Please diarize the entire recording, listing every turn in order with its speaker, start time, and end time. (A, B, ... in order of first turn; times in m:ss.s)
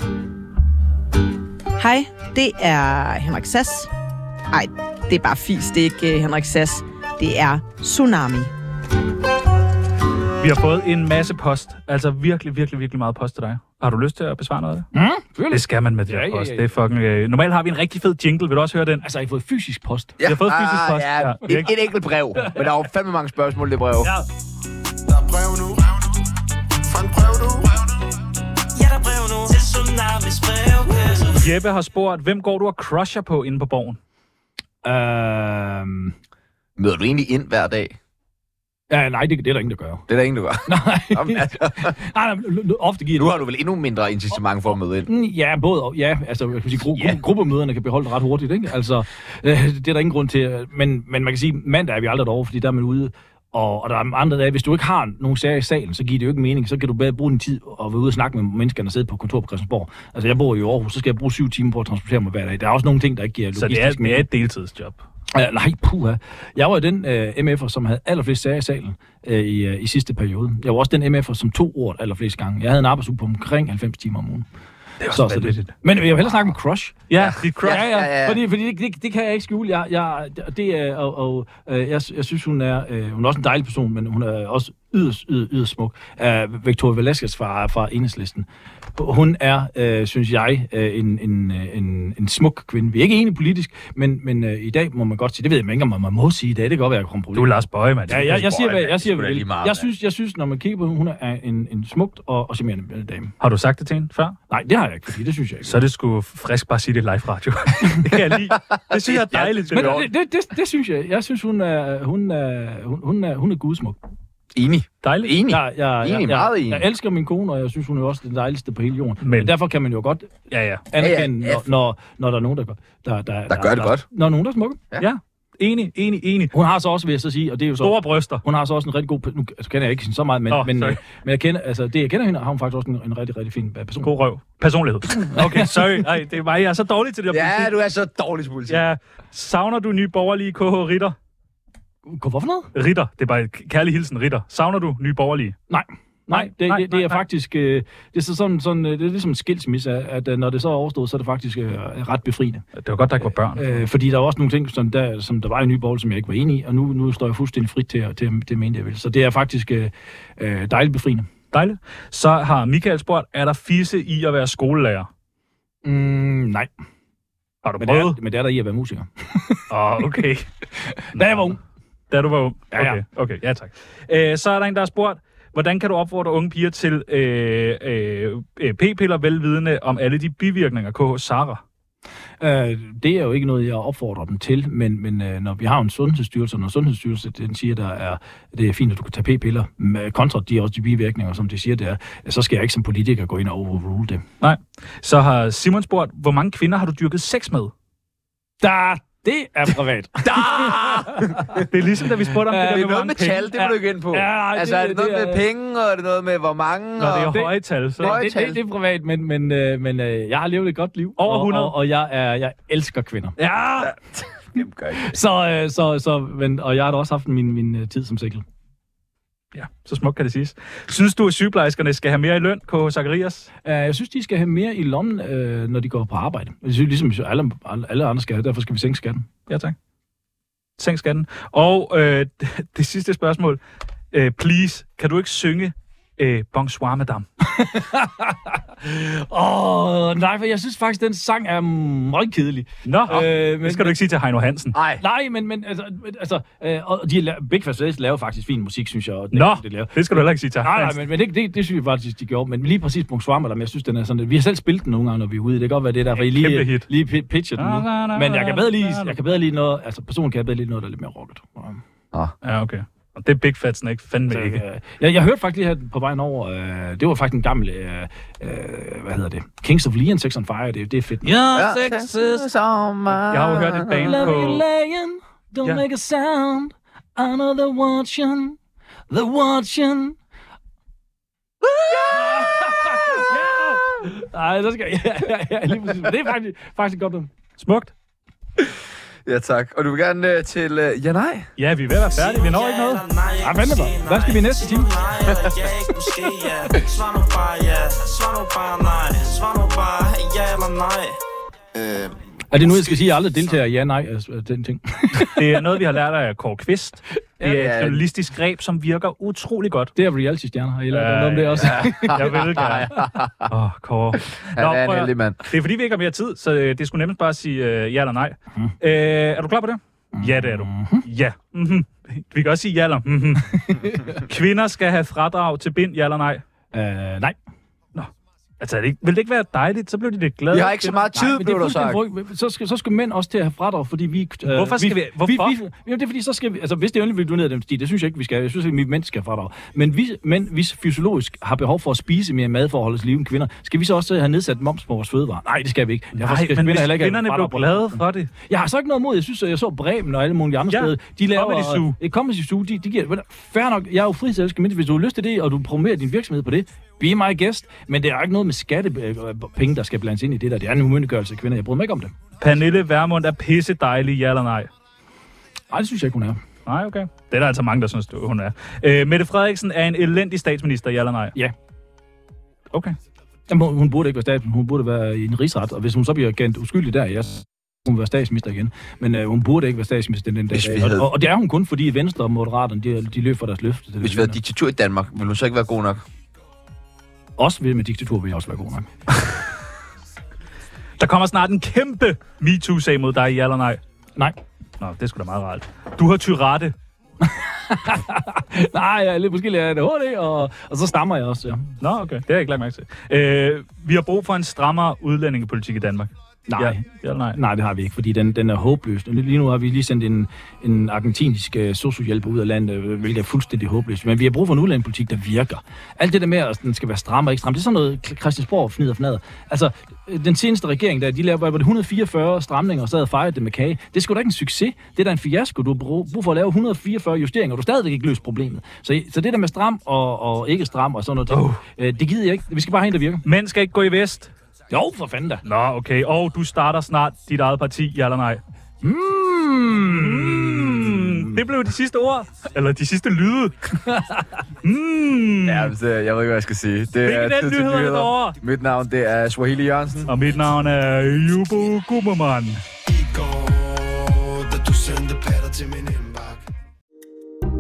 0:01.8-0:03.9 A
0:04.5-0:08.5 A
0:10.4-0:14.9 B
0:14.9-0:16.7 C
0:15.5-0:19.0 B
0:19.0-0:20.2 C
0:20.2-0:24.1 D
0:20.2-0:21.7 B
0:25.1-0:26.1 E
0:26.8-0:28.0 E
0:28.8-0:31.4 F
0:31.3-0:34.0 B
0:34.8-0:36.2 C
0:36.8-0:38.0 D
0:38.9-0:40.1 C
0:40.1-0:42.0 D
0:40.7-0:43.4 C
0:43.2-0:45.1 D
0:45.0-1:04.3 C
0:46.9-0:47.2 D
1:03.5-1:05.0 B
1:05.3-1:14.5 C
1:15.0-1:15.7 B
1:15.1-1:17.0 C
1:17.1-1:17.8 B
1:17.1-1:18.4 D
1:17.6-1:37.6 C
1:37.3-1:38.4 B
1:38.1-1:43.3 C
1:38.1-1:39.9 D
1:43.4-1:44.4 B
1:44.5-1:45.8 C
1:45.7-1:50.1 B
1:48.7-1:50.1 D
1:49.7-1:54.0 C
1:54.6-1:56.9 D
1:55.0-1:55.4 B
1:55.5-2:00.3 C
1:59.2-1:59.5 B
2:00.5-2:00.8 B
2:00.9-2:04.8 C
2:01.0-2:01.6 D
2:03.5-2:04.0 D
2:05.0-2:06.5 B
2:06.5-2:14.1 C
2:07.8-2:08.4 B
2:10.5-2:11.0 B
2:14.0-2:17.8 B
2:15.2-2:16.0 C
2:17.3-2:18.8 D
2:18.7-2:21.2 B
2:22.1-2:22.7 C
2:22.8-2:25.6 B
2:25.7-2:32.7 C
2:26.3-2:27.2 B
2:32.8-2:33.8 B
2:33.2-2:41.3 C
2:41.5-2:45.1 B
2:45.8-2:46.7 C
2:47.6-2:48.2 B
2:47.8-2:50.2 C
2:49.7-2:50.5 B
2:51.1-2:51.6 C
2:52.1-3:01.6 B
2:52.7-2:53.0 C
3:02.4-3:14.2 C
3:14.4-3:17.7 B
3:18.6-3:21.6 C
3:20.2-3:21.7 D
3:21.7-3:23.6 B
3:22.5-3:22.9 C
3:22.6-3:27.4 D
3:23.5-3:25.4 C
3:27.0-3:28.2 B
3:27.2-3:33.9 C
3:28.0-3:28.6 D
3:31.2-3:31.8 B
3:33.8-3:35.2 D
3:35.0-3:38.4 C
3:39.5-3:43.5 B
3:43.6-3:49.3 C
3:49.5-3:49.8 B
3:50.8-3:53.6 B
3:54.1-3:57.2 B
3:57.4-4:04.0 C
4:02.8-4:04.8 B
4:04.7-4:05.0 D
4:05.0-4:21.8 C
4:09.3-4:11.0 B
4:16.2-4:16.9 B
4:17.6-4:19.2 B
4:22.4-4:24.6 B
4:24.3-4:31.4 C
4:31.2-4:32.5 B
4:31.5-4:34.3 D
4:33.3-4:34.6 B
4:34.0-4:38.6 C
4:39.1-4:40.2 C
4:41.6-4:43.3 C
4:42.1-4:44.1 B
4:44.0-4:47.3 C
4:47.6-4:47.9 B
4:49.3-4:51.5 D
4:51.6-4:53.0 B
4:52.1-5:01.1 F
4:53.4-4:54.9 C
5:01.8-5:02.1 D
5:02.5-5:05.4 C
5:05.2-5:10.0 B
5:07.4-5:08.0 D
5:10.0-5:12.6 C
5:10.9-5:26.4 B
5:11.6-5:13.5 D
5:14.6-5:15.5 D
5:20.1-5:21.1 C
5:23.6-5:24.2 C
5:26.7-5:27.4 C
5:27.9-5:31.0 B
5:30.5-5:32.0 D
5:31.1-6:02.2 C
5:34.5-5:35.6 B
5:46.2-5:48.3 B
5:50.7-5:52.0 B
6:02.4-6:04.7 B
6:05.7-6:06.4 C
6:06.7-6:11.4 B
6:13.5-6:24.4 C
6:20.5-6:21.1 D
6:24.0-6:26.0 D
6:27.4-6:28.9 C
6:31.0-6:33.8 B
6:34.8-6:36.8 B
6:37.2-6:41.7 C
6:41.8-6:47.4 B
6:46.5-6:46.8 C
6:47.3-7:13.2 C
7:11.3-7:11.6 B
7:13.2-7:14.3 B
7:14.7-7:15.4 C
7:15.4-7:18.4 B
7:18.8-7:21.4 C
7:19.8-7:23.8 B
7:23.9-7:24.2 C
7:24.6-7:25.7 B
7:25.4-7:30.1 D
7:27.0-7:28.4 B
7:30.1-7:32.6 B
7:32.9-7:36.4 E